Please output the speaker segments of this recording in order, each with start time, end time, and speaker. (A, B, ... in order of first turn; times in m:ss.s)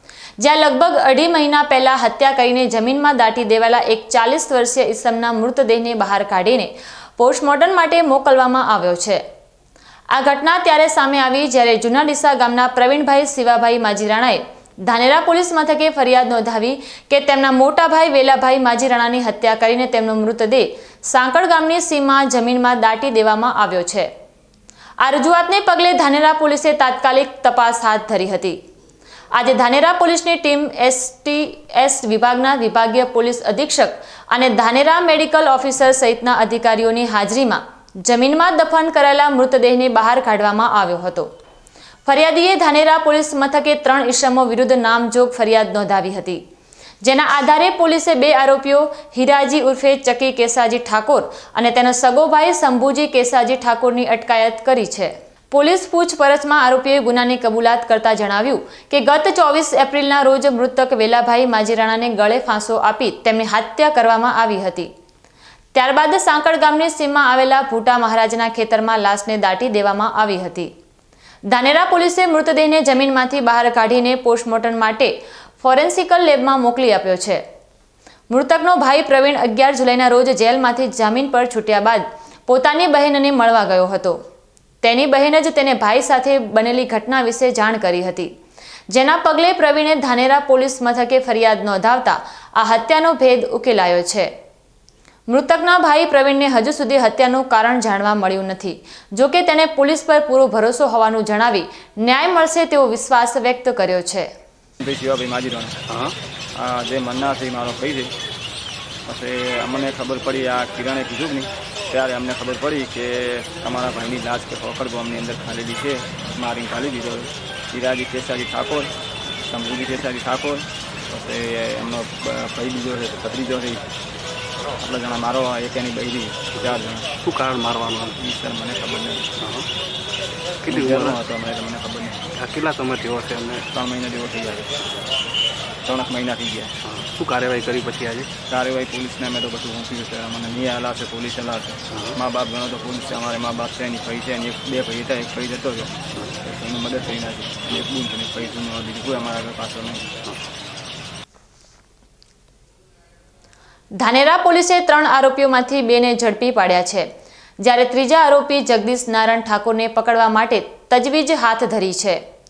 0:00.4-0:09.2 A
0:10.1-0:24.1 A
0:25.0-0:28.6 A
0:29.3-0:41.3 A
0:42.1-0:46.4 A
0:47.0-1:04.9 A
1:05.7-1:10.7 A
1:11.5-1:17.4 A
1:18.3-1:24.2 A
1:24.8-1:28.3 A
1:28.9-1:34.3 A
1:35.3-1:44.3 A
1:44.8-1:45.8 B
1:45.9-1:46.2 C
1:46.6-1:48.1 B
1:49.1-1:58.9 B
1:59.4-2:03.8 B
2:04.8-2:07.1 B
2:07.2-2:08.2 C
2:08.2-2:09.3 B
2:09.4-2:09.7 C
2:10.6-2:11.2 C
2:10.7-2:12.3 B
2:12.4-2:13.7 C
2:13.7-2:14.7 B
2:15.9-2:16.7 B
2:16.8-2:18.3 C
2:18.5-2:30.2 B
2:21.9-2:22.2 C
2:34.0-2:37.1 A
2:37.6-2:42.2 A